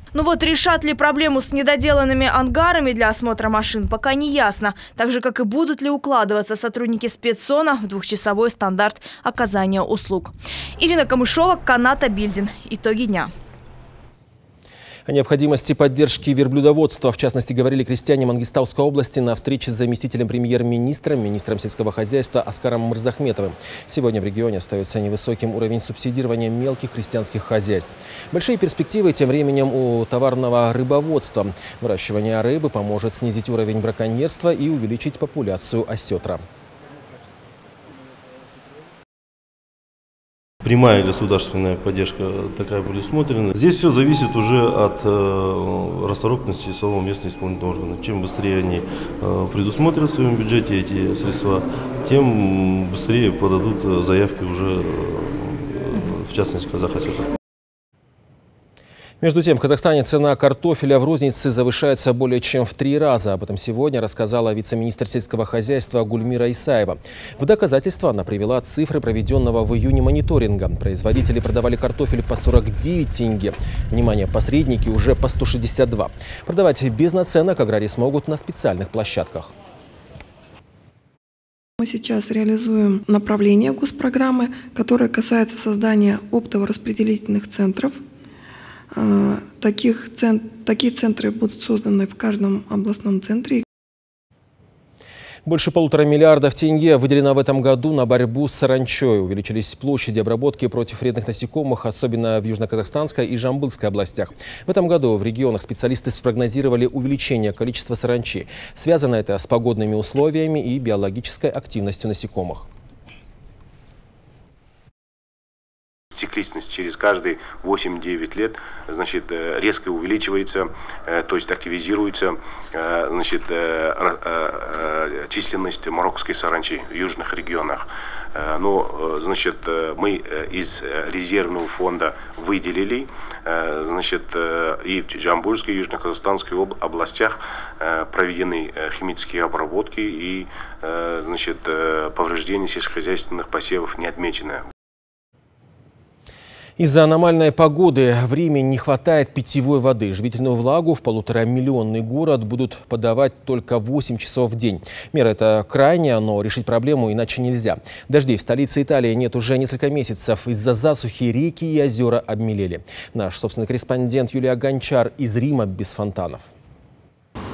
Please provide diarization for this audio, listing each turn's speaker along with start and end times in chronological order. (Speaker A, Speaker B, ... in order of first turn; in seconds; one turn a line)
Speaker A: 0.1-13.3
Speaker B: 15.1-36.4
Speaker C: 40.6-57.3
Speaker B: 59.2-79.5
Speaker D: 81.8-88.0
Speaker D: 88.9-93.6
Speaker B: 95.4-112.7
Speaker E: 116.1-144.6
Speaker B: 146.8-166.5